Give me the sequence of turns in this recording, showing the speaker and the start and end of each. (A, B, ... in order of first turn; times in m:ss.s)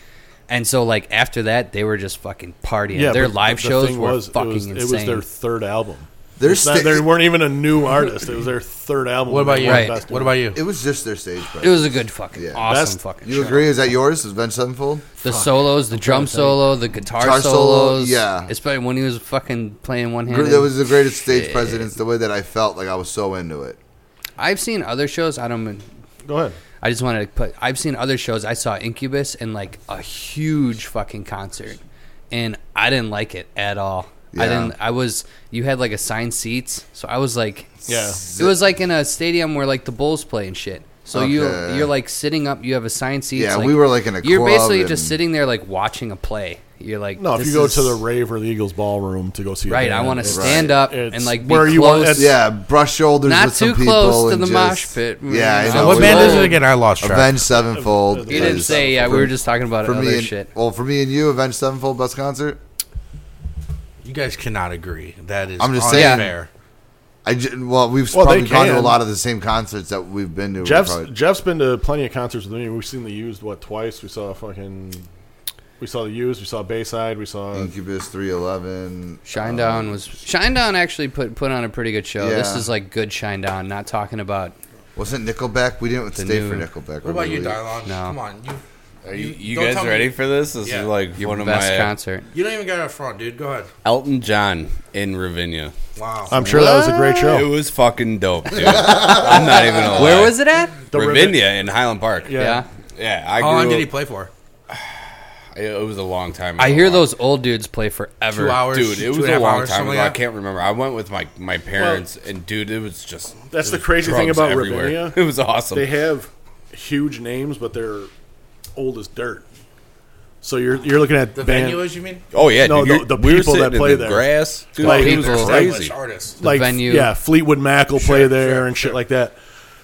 0:00.5-0:05.2 A
0:02.9-0:10.4 B
0:06.4-0:07.2 C
0:09.3-0:10.6 D
0:09.6-0:10.0 A
0:10.5-0:12.6 C
0:11.6-0:13.6 A
0:12.6-0:13.0 B
0:13.2-0:15.0 C
0:15.2-0:21.9 A
0:15.2-0:16.7 B
0:17.2-0:18.5 C
0:20.3-0:23.8 C
0:24.4-0:25.8 A
0:26.2-0:26.6 B
0:26.8-0:31.8 A
0:32.3-0:48.0 A
0:34.3-0:34.7 C
0:37.9-0:38.2 B
0:37.9-0:38.6 C
0:41.1-0:41.9 C
0:43.4-0:45.2 C
0:47.2-0:52.3 B
0:49.7-0:52.3 A
0:50.3-0:50.7 C
0:52.1-1:02.6 C
0:53.2-0:56.6 A
0:55.7-0:57.3 D
0:55.8-0:56.6 B
0:57.5-0:59.3 B
0:58.3-1:00.5 A
1:04.0-1:06.5 D
1:05.6-1:06.3 C
1:05.9-1:06.3 A
1:07.2-1:11.1 C
1:08.1-1:09.0 B
1:10.6-1:15.0 B
1:15.8-1:17.7 B
1:17.5-1:20.0 C
1:19.2-1:24.5 A
1:22.2-1:22.7 C
1:24.9-1:27.6 C
1:26.1-1:26.7 A
1:27.0-1:28.6 D
1:27.8-1:28.2 A
1:29.0-1:31.9 E
1:29.1-1:30.9 D
1:31.2-1:32.2 A
1:32.3-1:33.7 D
1:33.8-1:35.7 E
1:36.0-1:36.4 D
1:36.3-1:37.6 B
1:36.4-1:37.3 A
1:36.5-1:40.4 E
1:38.6-1:39.6 C
1:39.8-1:40.8 A
1:40.9-1:42.3 E
1:40.9-1:41.6 B
1:42.2-1:42.6 B
1:42.3-1:42.7 A
1:43.0-1:43.9 E
1:43.4-1:44.3 D
1:44.7-1:47.1 E
1:46.6-1:48.7 A
1:48.3-1:50.2 D
1:48.7-1:55.9 E
1:51.7-1:52.0 B
1:53.5-1:58.1 B
1:58.7-1:59.4 B
2:00.4-2:01.8 B
2:01.3-2:02.2 D
2:02.3-2:06.0 E
2:02.6-2:05.8 B
2:04.8-2:05.6 A
2:04.9-2:06.4 D
2:06.4-2:09.3 B
2:06.4-2:07.1 A
2:08.0-2:09.0 D